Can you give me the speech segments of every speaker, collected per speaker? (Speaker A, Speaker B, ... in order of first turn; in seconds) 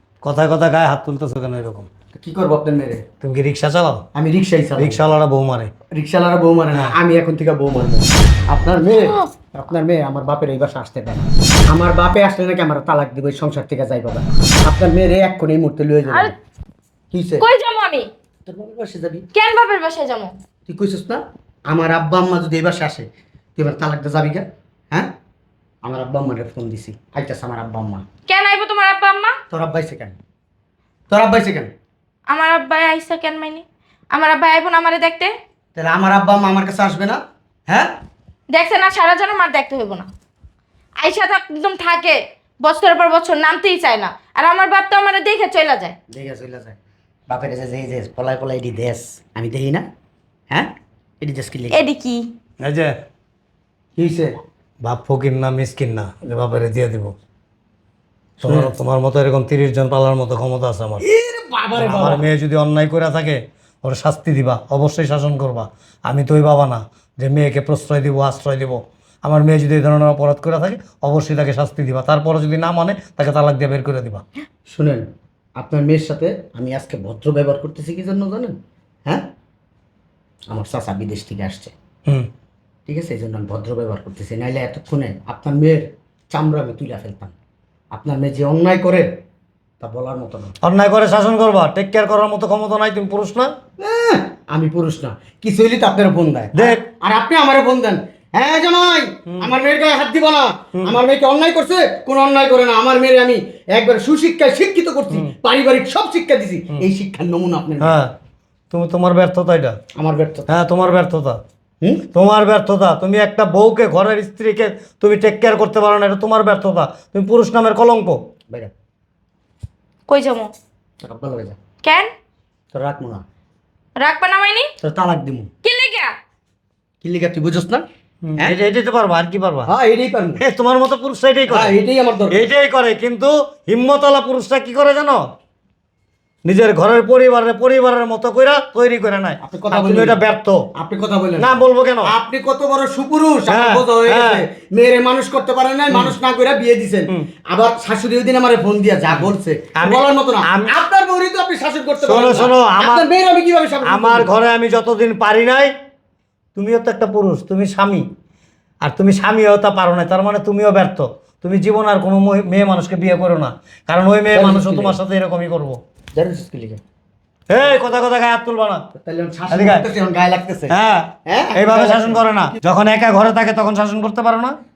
Speaker A: 0.2-1.9, 3.2-4.0, 4.8-5.7, 52.6-53.0, 54.8-57.1, 58.4-61.0, 61.8-74.2, 90.6-93.5, 96.5-96.8, 107.8-108.1, 108.7-109.8, 110.5-111.4, 112.1-118.2, 128.2-129.7, 130.4-131.8, 132.3-135.2, 136.4-140.7, 141.4-142.1, 143.5-144.4, 149.1-150.7, 152.0-153.1, 153.8-155.7, 156.6-158.1, 158.8-165.8, 167.5-168.8, 169.5-169.9, 170.7-174.6
Speaker B: 2.1-3.0, 4.1-5.0, 5.9-16.3, 17.1-17.5, 18.5-19.3, 20.7-25.1, 25.8-28.0, 29.5-30.2, 31.1-31.7, 35.8-38.0, 46.1-46.8, 47.3-49.9, 50.5-51.8, 54.0-54.3, 58.4-58.7, 61.0-62.2, 74.7-75.0, 75.6-79.3, 80.5-81.7, 82.9-87.3, 87.9-89.1, 89.8-90.5, 93.8-108.0, 110.0-110.5, 121.0-121.6, 122.7-123.2, 124.8-125.5, 127.0-127.8, 129.7-130.4, 131.5-132.4, 139.4-140.2, 140.8-154.3, 164.3-165.0, 166.2-166.8, 168.9-170.7, 171.3-172.6
Speaker C: 8.9-9.3, 17.4-18.1, 19.3-20.3, 28.3-29.4, 32.3-35.3, 38.5-40.1, 41.0-46.0, 51.7-52.3, 120.1-120.5, 121.8-122.1, 124.0-124.7, 125.6-126.1